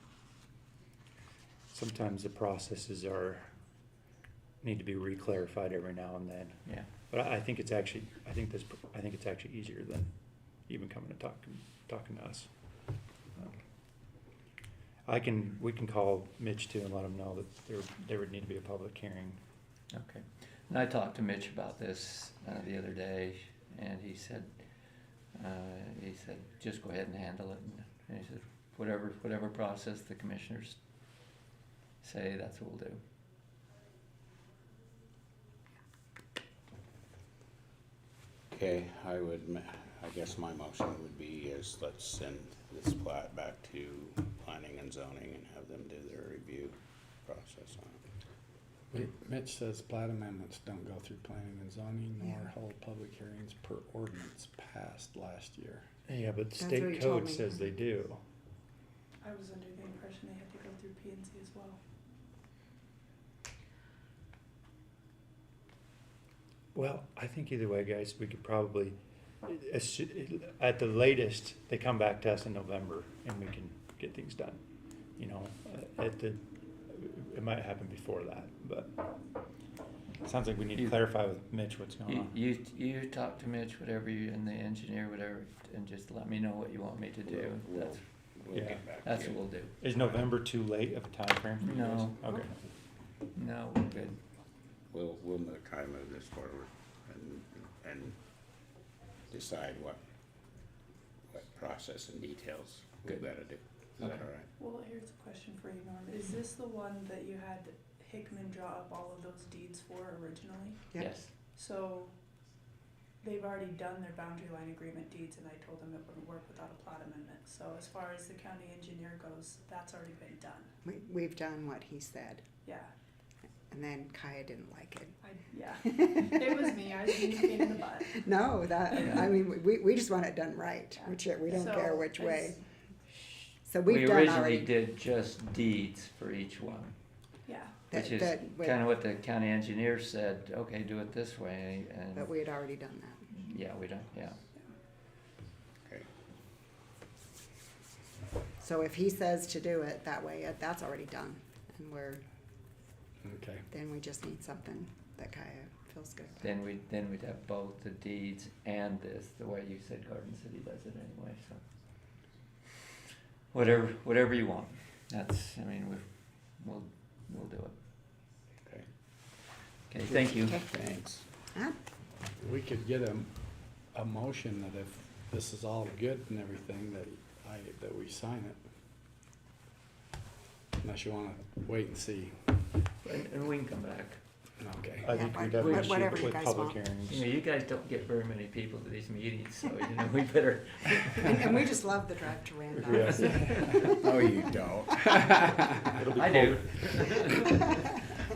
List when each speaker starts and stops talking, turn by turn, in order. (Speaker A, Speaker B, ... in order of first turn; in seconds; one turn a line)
Speaker A: 1.7-3.5
Speaker A: 4.6-10.1
Speaker A: 10.7-12.5
Speaker A: 15.1-19.4
Speaker B: 19.9-24.5
Speaker B: 25.3-30.8
Speaker B: 32.0-33.0
Speaker C: 38.5-48.0
Speaker D: 48.9-55.8
Speaker A: 56.1-58.2
Speaker E: 56.6-57.6
Speaker F: 59.2-61.8
Speaker A: 66.7-74.6
Speaker A: 75.2-79.0
Speaker A: 80.2-82.3
Speaker B: 82.1-88.0
Speaker C: 87.3-90.3
Speaker A: 88.5-88.8
Speaker B: 88.8-89.8
Speaker A: 89.8-92.5
Speaker B: 91.6-92.5
Speaker B: 93.3-94.2
Speaker C: 94.9-98.2
Speaker C: 99.3-100.0
Speaker C: 101.3-104.5
Speaker F: 104.6-112.1
Speaker B: 111.0-111.3
Speaker F: 113.2-120.7
Speaker E: 120.8-122.4
Speaker F: 122.6-122.9
Speaker E: 123.7-125.2
Speaker F: 125.2-128.2
Speaker E: 125.7-132.6
Speaker F: 128.9-129.3
Speaker B: 129.0-129.3
Speaker F: 130.9-132.6
Speaker E: 133.7-134.7
Speaker B: 133.7-136.9
Speaker F: 137.4-137.8
Speaker E: 137.9-138.8
Speaker B: 137.9-142.3
Speaker E: 142.1-143.3
Speaker B: 143.3-144.4
Speaker E: 148.6-152.2
Speaker D: 153.2-153.7
Speaker E: 153.7-156.4
Speaker B: 156.4-161.6
Speaker B: 163.5-166.1
Speaker B: 166.6-167.8
Speaker B: 169.9-170.6
Speaker C: 170.1-171.2
Speaker E: 170.4-170.7
Speaker D: 172.4-178.6
Speaker D: 180.8-182.5
Speaker B: 183.0-184.2
Speaker D: 184.6-185.2
Speaker A: 185.0-187.3
Speaker E: 185.1-186.8
Speaker B: 185.6-186.4
Speaker B: 187.1-191.7
Speaker E: 191.3-194.1
Speaker A: 192.9-193.7
Speaker B: 192.9-193.9
Speaker C: 193.8-195.5
Speaker D: 195.1-195.8
Speaker A: 195.9-197.4
Speaker B: 196.2-197.8